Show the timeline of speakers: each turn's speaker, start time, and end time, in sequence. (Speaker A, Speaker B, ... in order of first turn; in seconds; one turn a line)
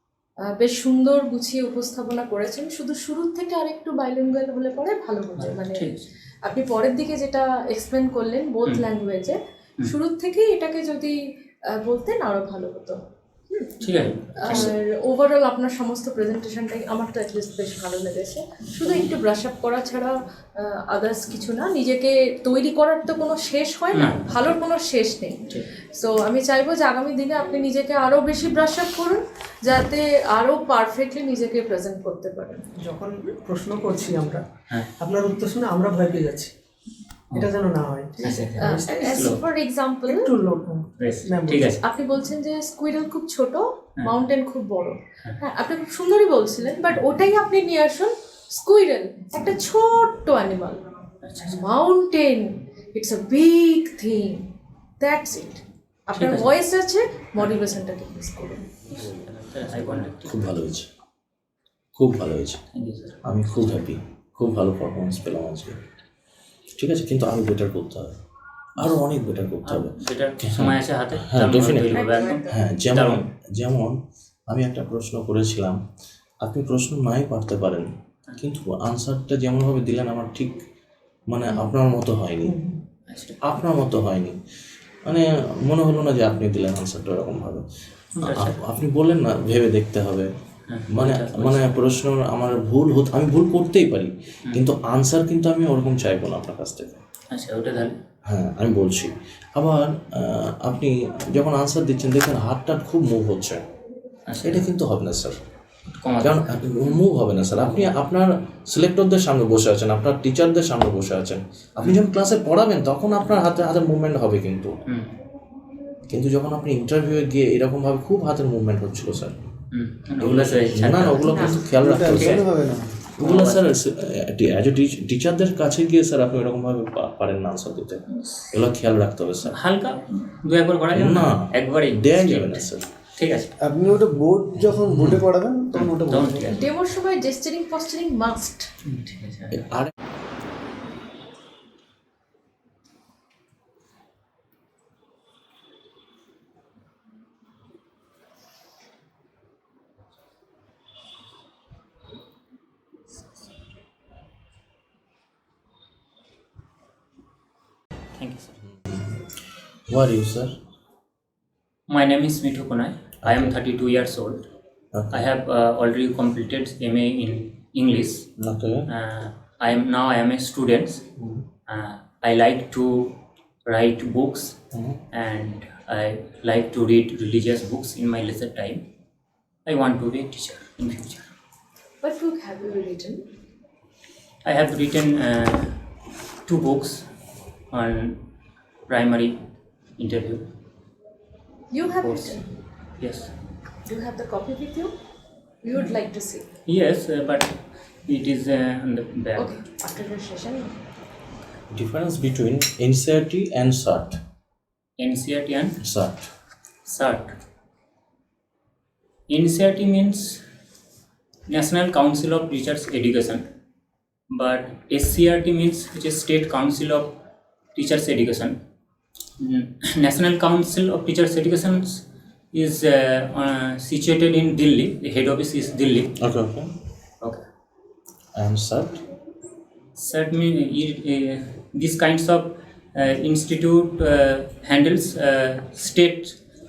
Speaker A: 0.5-11.2
Speaker B: 5.4-6.1
Speaker A: 11.7-13.0
Speaker A: 13.5-13.8
Speaker B: 13.8-14.7
Speaker A: 14.4-32.6
Speaker B: 23.9-24.5
Speaker C: 32.8-34.4
Speaker C: 35.0-36.5
Speaker C: 37.3-39.3
Speaker B: 38.2-39.4
Speaker A: 38.6-40.4
Speaker C: 40.0-41.7
Speaker B: 41.0-41.8
Speaker A: 41.8-50.8
Speaker B: 51.2-51.6
Speaker A: 51.5-54.5
Speaker A: 55.0-58.7
Speaker B: 56.1-56.5
Speaker B: 58.9-60.5
Speaker D: 59.8-60.9
Speaker D: 62.0-62.6
Speaker B: 62.7-63.7
Speaker D: 63.2-65.8
Speaker D: 66.8-68.1
Speaker D: 68.8-74.0
Speaker B: 69.6-73.2
Speaker A: 71.9-72.7
Speaker D: 74.5-75.8
Speaker D: 76.4-80.6
Speaker D: 81.3-82.5
Speaker C: 82.4-82.8
Speaker B: 83.1-83.4
Speaker D: 83.4-84.4
Speaker D: 85.0-87.6
Speaker B: 88.2-88.6
Speaker D: 88.2-90.3
Speaker B: 90.7-91.9
Speaker D: 90.9-97.0
Speaker B: 97.3-97.9
Speaker D: 98.2-103.6
Speaker B: 104.3-104.7
Speaker D: 104.4-105.4
Speaker B: 106.0-106.6
Speaker D: 106.2-114.8
Speaker B: 114.9-115.1
Speaker D: 116.1-119.3
Speaker B: 119.7-121.6
Speaker D: 120.2-122.4
Speaker E: 121.8-123.0
Speaker B: 122.1-122.4
Speaker D: 123.2-129.6
Speaker B: 123.2-123.7
Speaker B: 128.2-128.5
Speaker B: 129.5-133.5
Speaker D: 130.9-132.9
Speaker E: 133.6-136.6
Speaker D: 134.8-135.2
Speaker B: 135.7-136.7
Speaker A: 136.5-138.7
Speaker B: 138.8-139.7
Speaker B: 158.2-158.6
Speaker D: 158.9-159.3
Speaker D: 159.9-160.6
Speaker B: 161.9-164.4
Speaker D: 163.2-163.5
Speaker D: 164.9-165.2
Speaker B: 165.1-168.3
Speaker D: 168.4-168.9
Speaker B: 168.9-171.0
Speaker B: 171.7-174.6
Speaker D: 174.7-175.0
Speaker B: 175.1-178.8
Speaker B: 179.7-181.3
Speaker A: 182.0-183.2
Speaker B: 184.4-185.8
Speaker B: 186.4-187.0
Speaker B: 187.7-188.2
Speaker B: 188.9-189.4
Speaker B: 190.0-190.4
Speaker A: 191.7-192.4
Speaker B: 192.0-192.4
Speaker B: 193.0-193.3
Speaker A: 193.8-194.9
Speaker A: 195.6-196.4
Speaker B: 196.7-199.6
Speaker A: 199.3-200.7
Speaker D: 201.7-204.2
Speaker B: 205.0-205.8
Speaker D: 205.8-206.3
Speaker B: 206.8-207.3
Speaker B: 209.3-210.4
Speaker B: 211.5-213.4
Speaker B: 214.3-217.1
Speaker B: 217.7-218.6
Speaker B: 219.4-226.1
Speaker D: 226.2-226.7
Speaker D: 228.3-229.0
Speaker B: 229.9-236.4